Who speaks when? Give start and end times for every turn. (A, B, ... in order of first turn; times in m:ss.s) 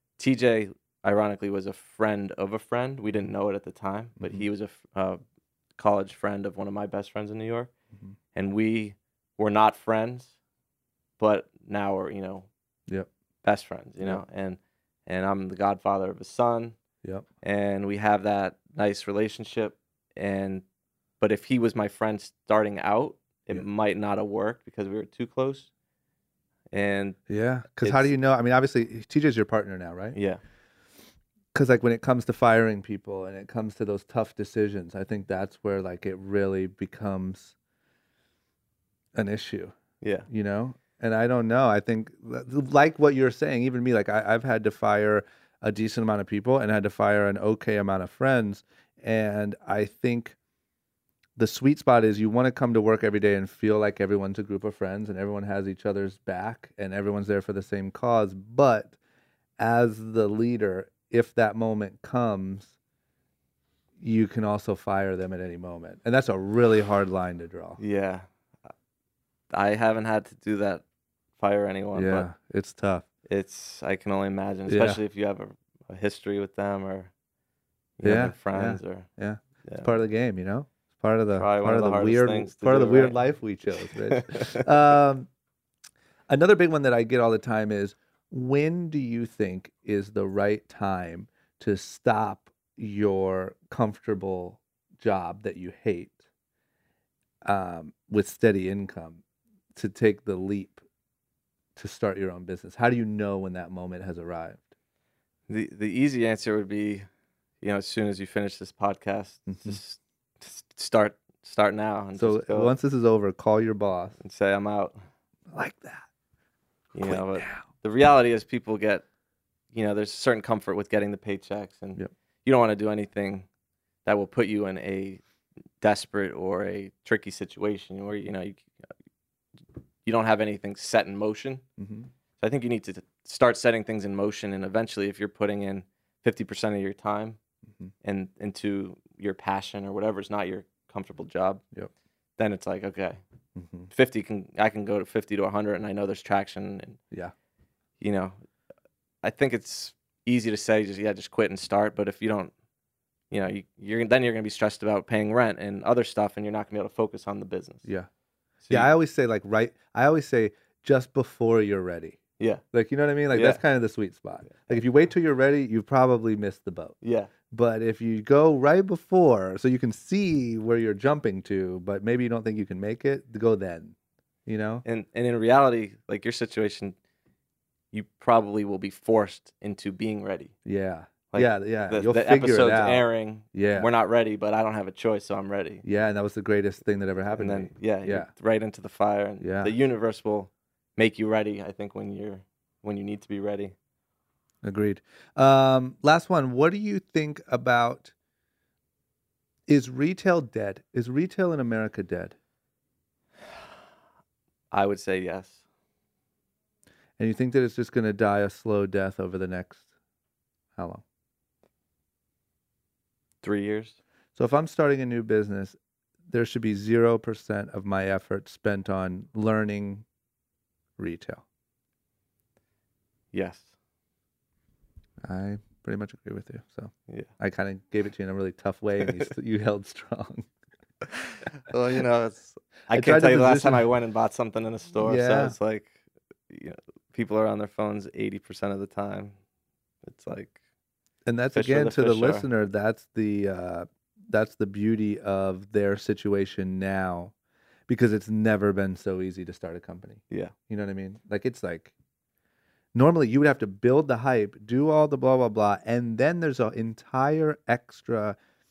0:00.2-0:05.2 A
0:04.2-0:04.4 B
0:05.8-0:07.7 A
0:08.3-0:10.3 A
0:11.2-0:12.5 A
0:13.4-0:16.8 A
0:17.4-0:20.6 A
0:21.2-0:25.7 A
0:26.7-0:27.2 A
0:27.3-0:30.2 B
0:27.8-0:28.1 A
0:30.1-0:30.4 A
0:31.5-0:37.5 B
0:39.1-0:39.7 B
0:40.0-0:40.3 A
0:40.3-0:50.4 B
0:51.4-0:59.0 B
0:59.6-1:02.7 B
1:04.0-1:07.8 B
1:07.8-1:08.3 A
1:09.5-1:10.8 A
1:11.4-1:12.3 A
1:11.9-1:13.0 B
1:13.3-1:17.1 A
1:14.7-1:15.0 B
1:18.0-1:19.1 A
1:18.0-1:25.3 B
1:21.3-1:23.2 A
1:23.8-1:24.6 A
1:26.3-1:36.2 B
1:37.4-1:39.2 B
1:39.7-1:40.8 B
1:41.8-1:44.6 B
1:45.5-1:47.1 A
1:47.6-1:52.8 A
1:49.5-1:49.8 B
1:52.2-1:54.2 B
1:54.2-1:55.0 A
1:55.5-1:56.0 B
1:56.9-1:59.0 A
1:57.0-1:57.6 B
1:59.7-2:03.5 A
2:04.0-2:05.2 A
2:05.8-2:08.7 A
2:10.0-2:11.6 A
2:11.8-2:12.1 B
2:12.4-2:17.4 A
2:18.0-2:21.6 A
2:22.4-2:23.2 A
2:23.5-2:23.9 B
2:23.9-2:27.0 A
2:28.0-2:28.3 A
2:29.2-2:32.5 A
2:33.3-2:37.8 A
2:38.6-2:38.9 A
2:38.7-2:42.2 B
2:42.7-2:46.9 B
2:43.3-2:43.6 A
2:44.4-2:44.8 A
2:47.0-2:47.3 A
2:47.5-2:53.9 B
2:54.4-2:54.8 B
2:54.8-2:56.9 A
2:57.9-3:00.5 A
3:00.6-3:03.9 B
3:01.3-3:05.8 A
3:05.8-3:08.3 B
3:07.3-3:13.7 A
3:09.4-3:09.7 B
3:14.6-3:18.1 B
3:19.7-3:22.3 B
3:24.7-3:25.6 A
3:27.2-3:29.8 B
3:30.8-3:31.0 B
3:33.4-3:34.0 A
3:34.4-3:35.8 B
3:36.3-3:40.0 B
3:41.0-3:41.4 B
3:43.3-3:43.7 A
3:45.2-3:50.5 B
3:51.2-3:59.4 A
3:52.9-3:53.9 B
3:55.0-3:55.6 B
4:00.0-4:00.6 A
4:01.2-4:07.3 B
4:01.5-4:02.4 A
4:07.9-4:11.9 B
4:12.9-4:18.4 B